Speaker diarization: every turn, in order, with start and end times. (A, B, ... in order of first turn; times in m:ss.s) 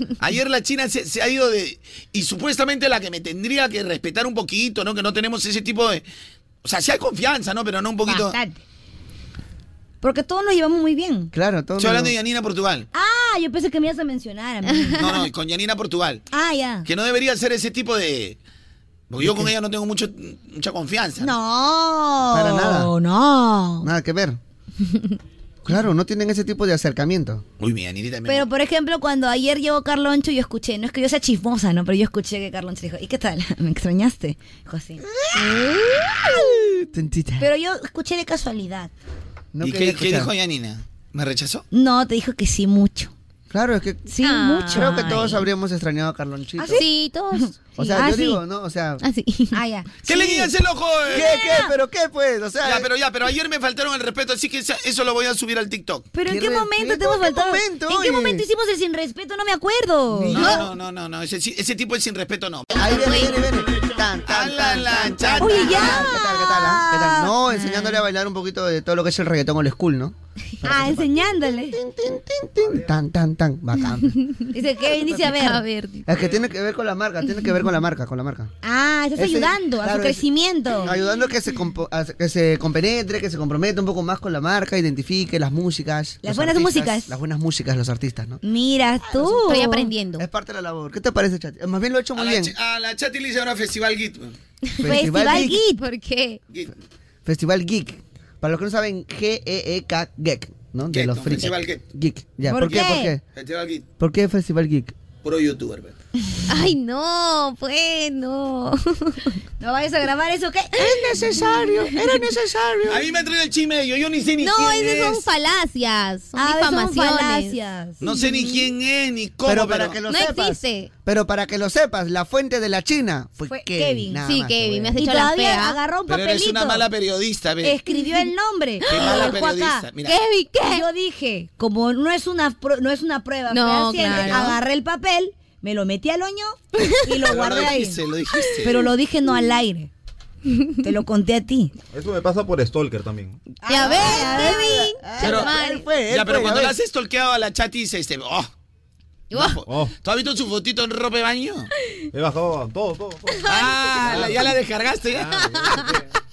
0:00.2-0:06.0 A
0:06.6-0:08.4 A
0:08.1-0:08.6 B
0:10.0-0:11.3 B
0:11.3-0:12.1 C
0:11.8-0:12.9 A
0:12.9-0:15.1 B
0:15.0-0:16.2 A
0:16.3-0:16.9 B
0:16.8-0:18.4 A
0:19.1-0:21.3 A
0:19.2-0:19.5 C
0:21.2-0:23.9 B
0:22.3-0:22.9 C
0:23.8-0:24.4 C
0:25.6-0:27.4 C
0:27.6-0:28.5 A
0:28.3-0:35.0 B
0:35.1-0:37.5 C
0:37.4-0:38.9 B
0:39.5-0:40.3 C
0:39.6-0:41.6 A
0:41.7-0:43.1 B
0:43.5-0:44.0 C
0:44.1-0:45.3 B
0:44.2-0:45.4 D
0:44.7-0:46.8 C
0:46.6-0:46.8 B
0:46.7-0:47.5 D
0:47.4-0:48.4 B
0:47.8-0:49.0 C
0:49.0-0:49.6 D
0:49.5-0:50.5 B
0:50.1-0:51.3 A
0:51.1-0:52.9 C
0:51.3-0:51.6 B
0:52.6-0:56.1 A
0:56.1-1:00.5 B
0:56.3-0:58.4 C
1:00.2-1:00.6 C
1:00.2-1:03.5 A
1:02.8-1:14.2 C
1:04.2-1:06.0 A
1:05.4-1:07.9 B
1:10.6-1:11.8 B
1:14.5-1:15.6 B
1:14.9-1:16.1 D
1:16.0-1:18.5 C
1:18.6-1:20.9 B
1:19.2-1:20.2 C
1:20.8-1:28.4 C
1:26.2-1:27.1 B
1:28.4-1:29.9 B
1:29.2-1:29.6 C
1:29.2-1:30.3 D
1:30.2-1:32.5 C
1:32.2-1:34.4 A
1:34.8-1:35.6 C
1:34.8-1:35.8 B
1:35.4-1:36.4 D
1:37.2-1:43.2 C
1:40.9-1:41.8 A
1:42.5-1:43.1 B
1:42.6-1:43.8 A
1:44.0-1:44.9 C
1:45.2-1:45.9 A
1:46.5-1:49.4 D
1:49.6-1:50.8 B
1:50.8-1:53.0 C
1:52.8-1:55.2 A
1:54.4-1:58.2 D
1:56.4-1:58.0 B
1:58.0-2:00.0 A
1:59.4-2:05.0 C
2:00.1-2:00.9 D
2:03.5-2:04.2 B
2:04.2-2:05.8 D
2:05.0-2:06.8 B
2:06.1-2:07.8 A
2:07.6-2:09.9 B
2:08.9-2:10.2 A
2:08.9-2:09.3 D
2:10.0-2:10.8 D
2:10.7-2:18.0 B
2:13.5-2:14.6 D
2:14.1-2:14.5 A
2:17.3-2:18.8 A
2:18.6-2:19.9 B
2:20.5-2:20.8 D
2:20.8-2:21.7 B
2:21.9-2:23.5 E
2:23.6-2:24.9 B
2:23.7-2:25.9 D
2:23.9-2:26.8 C
2:25.2-2:25.5 A
2:26.1-2:28.5 A
2:29.3-2:29.6 D
2:29.3-2:31.7 A
2:29.7-2:29.9 E
2:32.1-2:33.5 E
2:33.3-2:33.7 D
2:33.4-2:36.0 A
2:34.0-2:34.6 E
2:35.2-2:36.1 E